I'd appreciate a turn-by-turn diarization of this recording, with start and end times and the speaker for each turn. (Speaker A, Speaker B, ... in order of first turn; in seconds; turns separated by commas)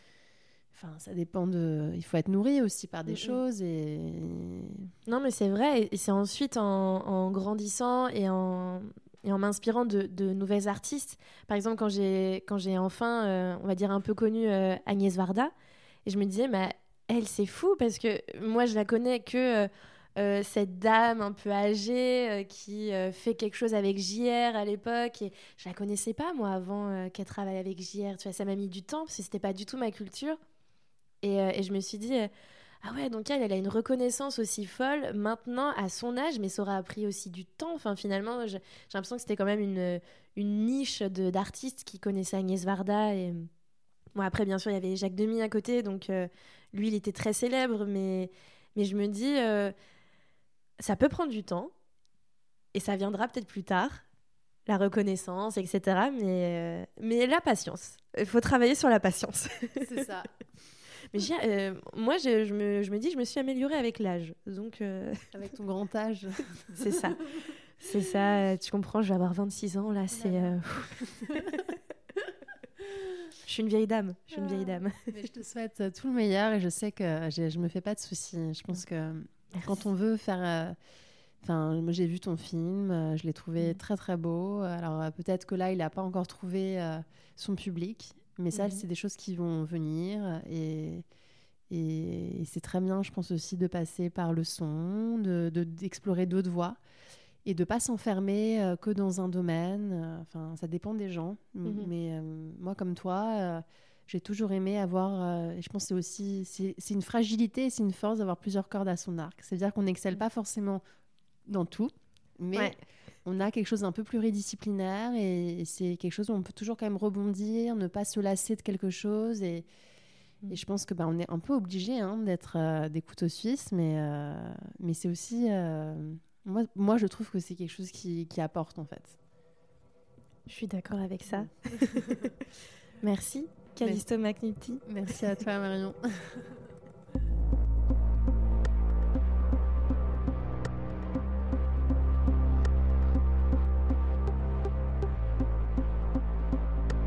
Speaker A: 0.7-4.9, Speaker B: 3.1-3.4, Speaker B: 5.1-15.5, Speaker B: 16.1-30.4, Speaker B: 31.2-32.3, Speaker B: 32.8-43.5, Speaker B: 44.2-49.7, Speaker B: 50.8-51.7, Speaker B: 52.7-54.0, Speaker B: 54.7-60.0, Speaker A: 59.8-60.3, Speaker B: 61.1-65.3, Speaker A: 65.3-67.5, Speaker B: 66.7-67.2, Speaker B: 67.8-71.4, Speaker A: 70.1-71.8, Speaker B: 73.4-75.1, Speaker A: 74.3-80.8, Speaker B: 79.5-79.8, Speaker A: 81.4-91.0, Speaker B: 88.5-88.8, Speaker A: 91.7-96.8, Speaker A: 97.5-110.8, Speaker B: 101.7-101.9, Speaker A: 111.5-119.7, Speaker B: 112.5-112.8, Speaker A: 120.5-129.2, Speaker B: 130.5-132.4, Speaker A: 131.3-132.3, Speaker B: 133.0-135.4, Speaker A: 133.8-134.1, Speaker A: 134.8-136.6